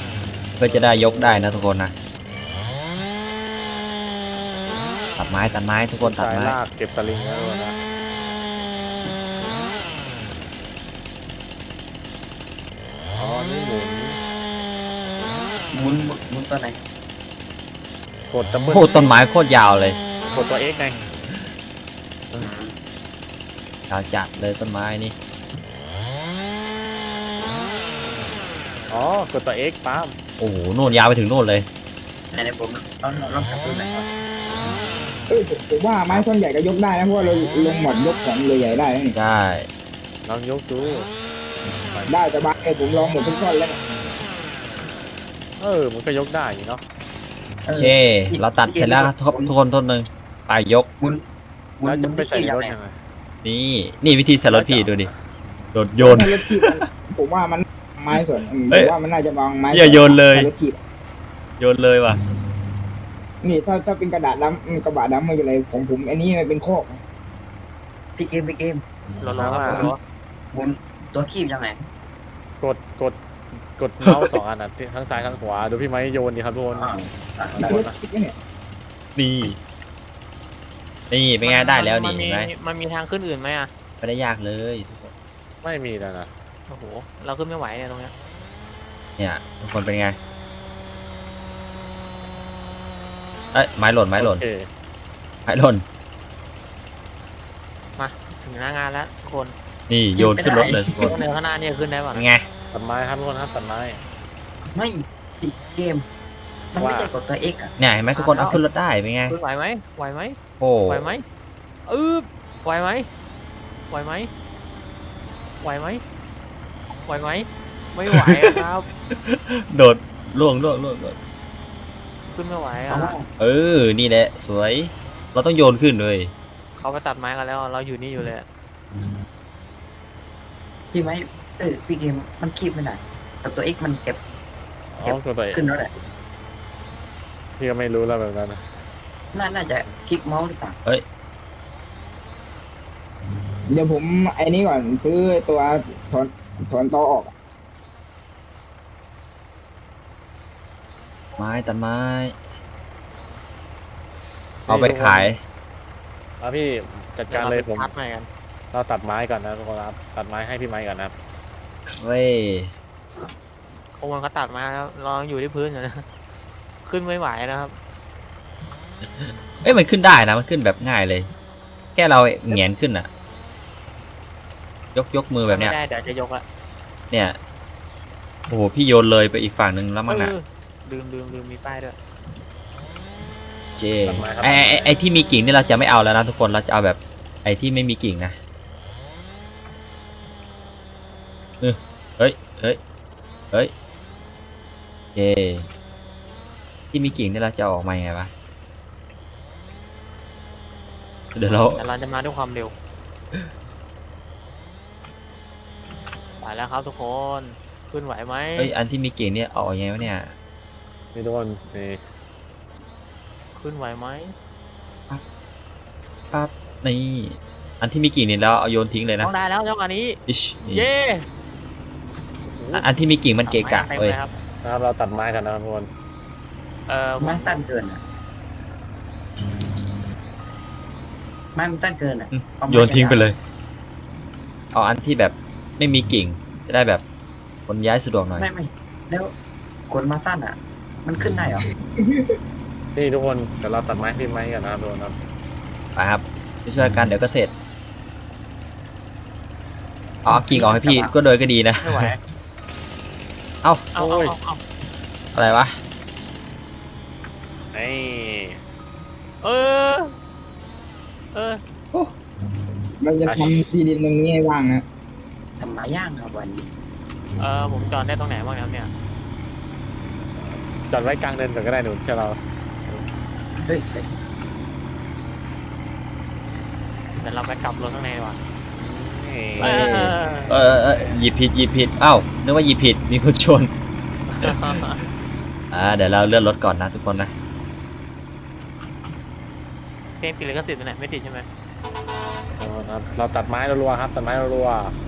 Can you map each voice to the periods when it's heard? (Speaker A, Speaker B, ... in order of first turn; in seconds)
Speaker A: 0.6-1.9, 5.2-6.6, 18.7-20.0, 23.9-25.1, 30.4-31.7, 39.1-39.7, 47.7-50.9, 53.4-55.1, 55.7-56.8, 58.1-58.9, 59.7-60.5, 61.6-62.2, 74.0-74.3, 79.2-79.6, 81.1-82.5, 84.0-85.1, 89.2-90.2, 93.5-94.4, 95.5-95.8, 99.9-101.2, 102.1-102.5, 107.8-109.3, 110.6-111.1, 118.1-118.6, 119.1-121.2, 123.4-126.3, 151.4-152.4, 154.7-155.4, 161.9-162.7, 169.0-171.3, 172.0-173.1, 174.9-175.8, 177.1-177.4, 178.5-180.3, 183.8-188.4, 191.6-192.8, 195.2-195.7, 196.9-198.3, 201.3-201.8, 208.6-210.3, 216.3-219.3, 220.3-220.9, 222.7-224.2, 232.3-233.4, 234.7-237.0, 237.7-238.5, 245.9-247.5, 250.2-252.2, 255.3-255.8, 279.6-283.7, 284.4-285.1, 285.7-287.3
Speaker B: 0.6-1.7, 6.0-7.8, 13.2-14.2, 18.3-19.1, 20.3-21.0, 28.9-30.1, 40.3-41.1, 45.6-46.8, 51.8-52.9, 54.5-55.1, 69.4-69.9, 72.6-73.2, 73.8-76.9, 77.5-78.0, 85.6-86.3, 94.2-94.7, 102.7-104.0, 106.8-107.1, 134.9-135.7, 137.6-138.6, 154.7-155.3, 156.4-157.9, 158.7-161.1, 184.1-184.9, 211.2-212.0, 224.6-225.9, 243.0-245.2, 254.0-254.3, 257.7-258.6, 263.2-263.6, 270.4-273.1, 278.8-281.1, 292.6-294.9
Speaker C: 15.7-16.9, 22.4-22.8, 32.3-34.0, 47.7-49.5, 51.8-52.7, 68.2-68.8, 69.4-70.0, 70.5-71.8, 76.7-77.8, 100.2-101.2, 104.7-106.0, 106.7-107.8, 122.9-123.3, 130.9-134.2, 135.1-135.9, 139.3-140.8, 227.2-228.0, 231.6-233.3, 238.4-239.3, 239.9-241.6, 250.2-251.1, 265.6-266.7, 273.6-274.1
Speaker D: 35.3-39.2, 42.1-43.8, 56.0-60.8, 63.4-67.0, 77.6-78.3, 143.7-147.3, 242.0-242.3, 263.0-264.8
Speaker E: 69.2-70.0, 81.4-83.7, 86.7-88.1, 98.0-99.5, 101.0-102.3, 108.1-108.6, 109.3-110.4, 110.9-111.2, 111.9-113.1, 113.9-114.3, 115.6-116.0, 117.0-118.9, 122.3-123.2, 126.8-128.4, 157.3-158.3, 164.0-166.1, 166.8-167.8, 175.5-176.4, 180.1-182.0, 201.4-202.7, 206.4-208.7, 213.6-214.3, 219.2-221.2, 223.5-224.3, 226.9-227.6, 251.8-252.2, 254.0-254.6, 259.4-260.1, 261.3-261.6, 267.4-268.9, 277.2-278.4, 279.6-280.5, 284.3-285.0, 290.2-291.5